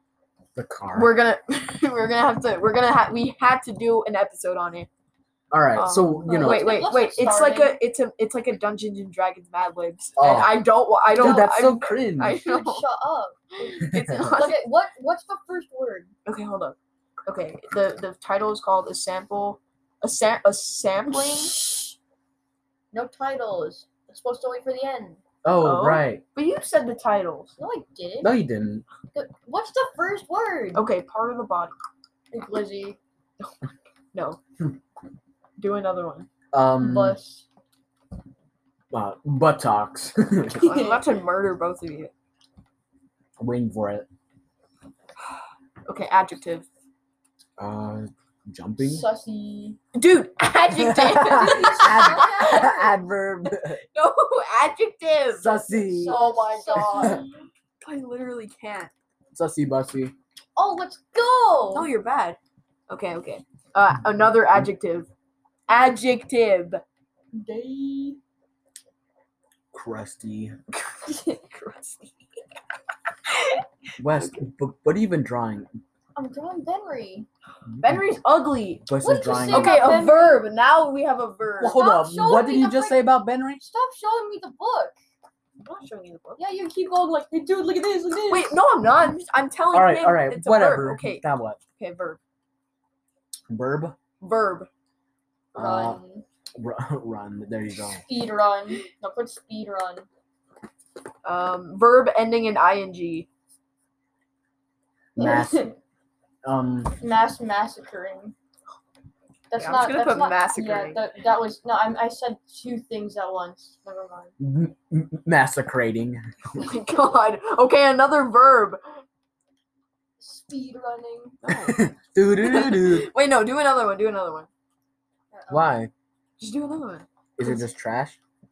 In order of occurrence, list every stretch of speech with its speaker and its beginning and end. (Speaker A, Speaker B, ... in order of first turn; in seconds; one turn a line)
Speaker A: 0.6-1.2
Speaker B: 0.9-4.9
Speaker A: 5.5-6.8
Speaker B: 5.8-12.9
Speaker C: 6.2-7.8
Speaker A: 10.2-12.4
Speaker C: 11.2-11.7
Speaker C: 12.3-16.1
Speaker B: 13.6-14.7
Speaker A: 13.8-14.4
Speaker B: 16.2-21.5
Speaker C: 21.1-21.9
Speaker C: 22.9-25.2
Speaker A: 25.4-26.2
Speaker B: 25.6-27.6
Speaker C: 27.6-28.4
Speaker A: 28.2-28.8
Speaker C: 29.1-30.9
Speaker B: 30.7-31.7
Speaker C: 32.3-33.0
Speaker B: 34.1-34.4
Speaker B: 35.6-36.3
Speaker A: 36.5-37.2
Speaker C: 36.8-37.5
Speaker A: 38.9-40.6
Speaker B: 40.6-42.1
Speaker C: 40.6-41.0
Speaker A: 43.4-44.1
Speaker B: 45.9-46.7
Speaker A: 47.6-49.0
Speaker C: 48.8-49.8
Speaker B: 50.0-52.8
Speaker A: 50.7-53.8
Speaker C: 51.2-53.0
Speaker B: 53.9-57.2
Speaker A: 55.4-56.2
Speaker C: 55.7-57.3
Speaker A: 56.8-57.2
Speaker B: 57.8-58.9
Speaker A: 59.3-60.1
Speaker C: 60.6-61.9
Speaker B: 61.7-62.4
Speaker B: 62.9-65.1
Speaker B: 65.7-66.8
Speaker C: 67.3-68.2
Speaker A: 69.7-70.6
Speaker B: 70.8-72.3
Speaker B: 73.3-73.6
Speaker A: 74.0-75.7
Speaker C: 76.2-77.3
Speaker B: 77.8-78.9
Speaker A: 78.9-79.9
Speaker C: 79.0-80.5
Speaker B: 79.5-81.9
Speaker A: 81.6-83.7
Speaker C: 81.7-85.0
Speaker B: 85.6-86.4
Speaker C: 86.4-88.6
Speaker B: 88.3-92.2
Speaker A: 89.7-91.6
Speaker A: 93.5-94.0
Speaker B: 94.2-94.7
Speaker A: 95.5-96.0
Speaker C: 95.5-96.2
Speaker A: 96.6-98.0
Speaker C: 97.8-100.1
Speaker B: 101.2-103.3
Speaker A: 105.2-105.7
Speaker C: 105.2-105.8
Speaker A: 106.4-107.0
Speaker C: 107.0-108.3
Speaker C: 109.5-114.3
Speaker B: 109.6-111.0
Speaker A: 114.4-116.2
Speaker B: 116.5-118.8
Speaker C: 120.2-121.4
Speaker B: 121.4-124.5
Speaker A: 121.7-123.1
Speaker C: 125.3-125.8
Speaker A: 125.5-125.9
Speaker B: 126.4-127.1
Speaker A: 127.4-128.2